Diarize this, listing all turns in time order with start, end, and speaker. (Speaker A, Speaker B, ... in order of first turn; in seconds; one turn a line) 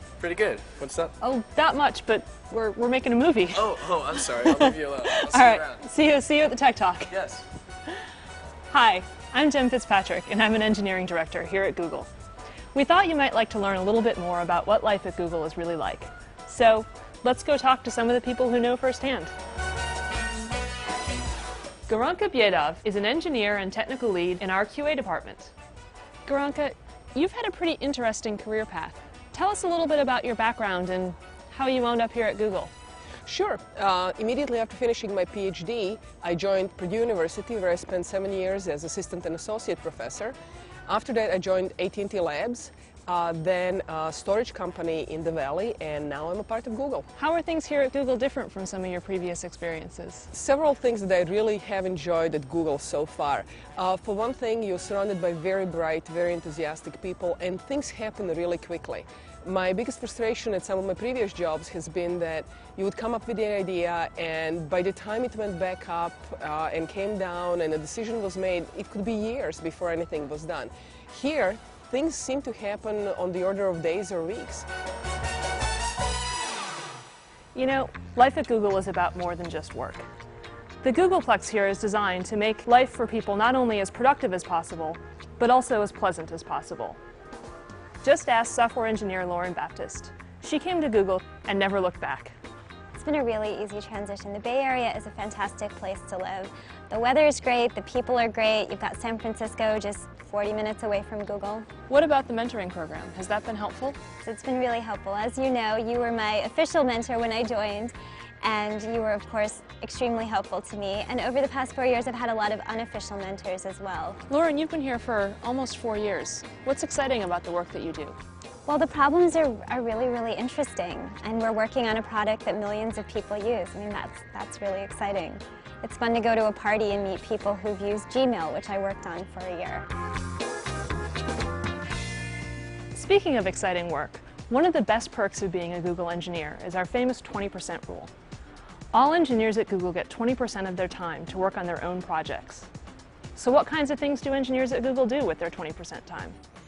Speaker A: 0.2-1.1
Speaker B: 1.2-7.1
Speaker A: 3.5-5.8
Speaker A: 7.1-7.4
Speaker B: 8.7-12.1
Speaker B: 12.7-19.3
Speaker B: 21.9-25.5
Speaker B: 26.2-32.7
Speaker C: 33.3-40.4
Speaker C: 40.9-47.1
Speaker B: 47.2-50.3
Speaker C: 50.3-74.7
Speaker B: 77.5-80.1
Speaker B: 80.8-87.0
Speaker B: 88.0-92.3
Speaker D: 93.0-101.7
Speaker B: 101.9-104.0
Speaker D: 104.2-114.2
Speaker B: 114.3-118.2
Speaker D: 118.7-129.8
Speaker B: 132.9-138.1
Speaker B: 138.9-142.7
Speaker B: 143.3-146.4